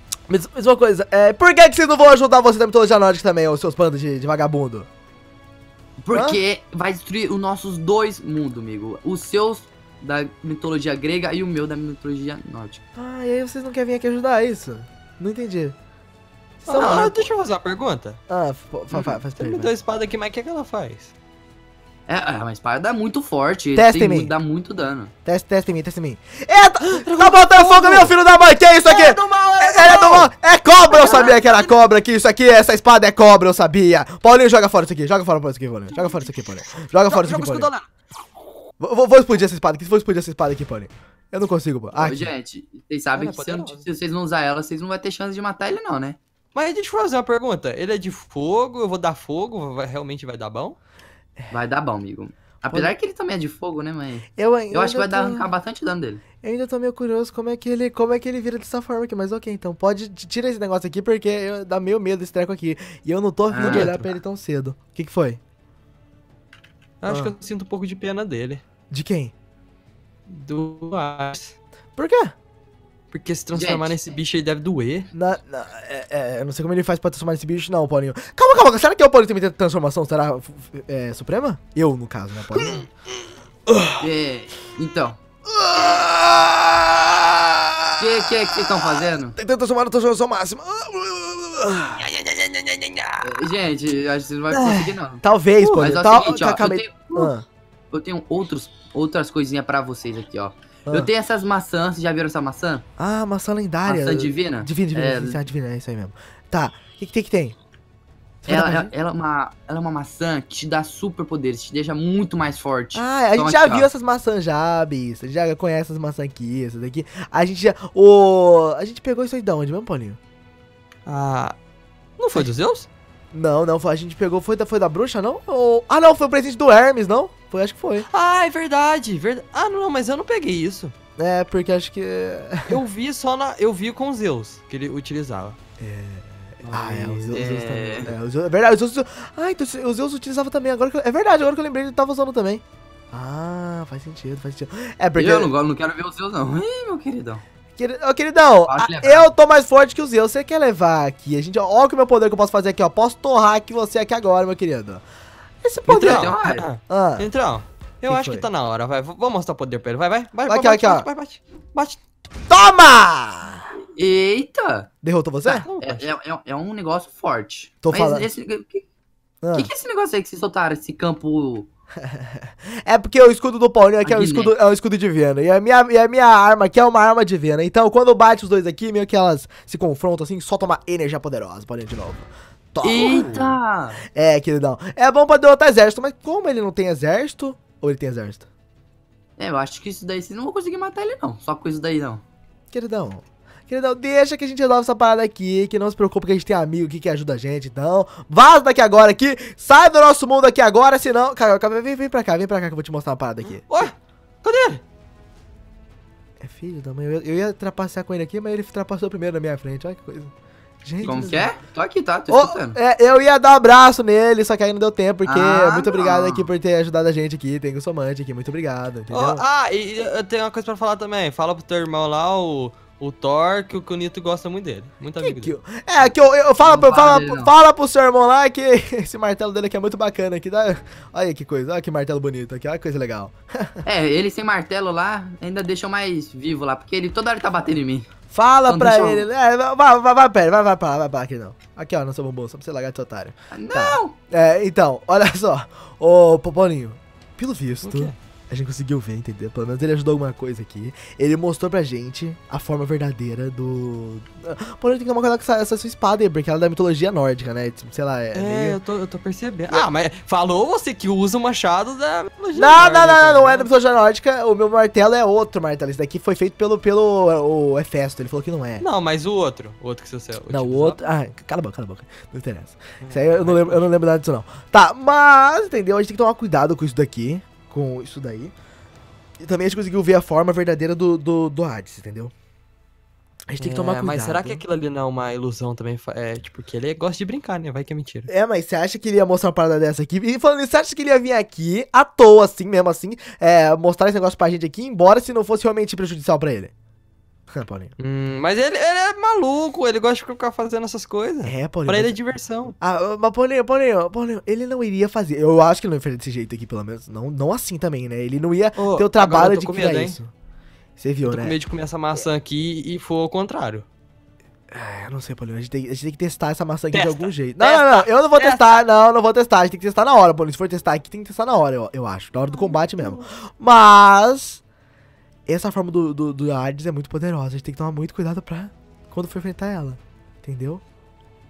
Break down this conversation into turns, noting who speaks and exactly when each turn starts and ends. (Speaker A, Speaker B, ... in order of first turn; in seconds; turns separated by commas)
Speaker A: 0.3-4.9, Speaker B: 6.0-12.8, Speaker A: 6.1-6.4, Speaker A: 12.9-15.8, Speaker A: 16.6-17.3, Speaker C: 16.6-18.2, Speaker A: 18.3-19.7, Speaker B: 18.9-19.2, Speaker C: 19.4-21.1, Speaker B: 22.1-25.1, Speaker A: 23.7-24.3, Speaker A: 25.2-37.7, Speaker C: 26.8-28.1, Speaker C: 28.8-30.3, Speaker C: 30.9-31.8, Speaker C: 37.1-37.9, Speaker A: 38.8-42.3, Speaker B: 41.9-46.2, Speaker C: 43.1-43.8, Speaker C: 46.5-50.8, Speaker B: 51.5-56.2, Speaker A: 54.4-55.5, Speaker A: 56.4-65.4, Speaker B: 63.5-63.9, Speaker C: 63.6-64.1, Speaker C: 67.0-68.6, Speaker A: 67.0-67.3, Speaker A: 68.9-69.3, Speaker C: 70.3-71.5, Speaker A: 72.0-72.3, Speaker C: 73.1-75.1, Speaker B: 73.5-74.0, Speaker A: 75.1-82.9, Speaker A: 83.7-84.0, Speaker B: 84.0-85.2, Speaker A: 85.5-88.0, Speaker B: 88.0-89.3, Speaker A: 89.3-93.1, Speaker C: 92.8-93.2, Speaker B: 93.2-95.2, Speaker C: 94.5-94.9, Speaker A: 95.2-97.5, Speaker B: 95.8-97.3, Speaker B: 97.9-102.8, Speaker A: 103.0-107.5, Speaker B: 103.8-105.4, Speaker A: 108.5-108.9, Speaker B: 108.5-113.9, Speaker A: 112.9-120.2, Speaker C: 121.0-121.6, Speaker C: 122.2-122.9, Speaker A: 123.3-128.1, Speaker C: 128.1-130.9, Speaker A: 131.2-132.8, Speaker C: 132.7-135.6, Speaker A: 135.8-145.5, Speaker B: 136.7-138.1, Speaker C: 136.7-137.6, Speaker B: 145.2-147.4, Speaker A: 147.8-155.0, Speaker B: 148.6-149.3, Speaker A: 155.6-156.3, Speaker C: 155.9-162.0, Speaker B: 155.9-156.6, Speaker A: 156.9-157.3, Speaker A: 158.1-158.5, Speaker A: 160.5-161.1, Speaker A: 162.5-163.7, Speaker B: 163.9-164.9, Speaker A: 165.0-165.7, Speaker B: 165.5-168.8, Speaker C: 165.6-166.1, Speaker A: 167.8-168.3, Speaker A: 169.4-169.7, Speaker B: 169.5-171.7, Speaker A: 172.0-183.5, Speaker B: 174.0-174.5, Speaker B: 182.8-184.0, Speaker C: 183.0-183.5, Speaker A: 184.1-188.5, Speaker B: 189.4-192.2, Speaker A: 192.7-203.8, Speaker C: 203.6-204.8, Speaker A: 206.4-210.3, Speaker A: 210.8-211.6, Speaker B: 211.0-212.8, Speaker A: 212.3-219.4, Speaker B: 215.2-216.5, Speaker C: 219.1-225.5, Speaker A: 225.2-233.8, Speaker B: 226.6-227.5, Speaker B: 233.8-238.1, Speaker A: 238.3-258.8, Speaker B: 238.7-239.3, Speaker B: 243.5-244.1, Speaker C: 247.8-248.1, Speaker C: 258.3-263.7, Speaker A: 262.5-268.8, Speaker C: 268.8-271.0, Speaker A: 270.5-278.5, Speaker C: 273.0-273.9, Speaker A: 279.4-282.3, Speaker A: 283.5-284.6, Speaker C: 283.6-288.3, Speaker A: 288.3-296.7, Speaker A: 297.5-297.9, Speaker C: 298.0-302.8, Speaker A: 301.4-302.2, Speaker A: 302.8-310.3, Speaker C: 308.8-310.2, Speaker A: 311.0-311.6, Speaker C: 311.2-313.9, Speaker A: 314.7-324.6, Speaker C: 316.9-318.6, Speaker C: 322.5-323.2, Speaker A: 325.5-330.8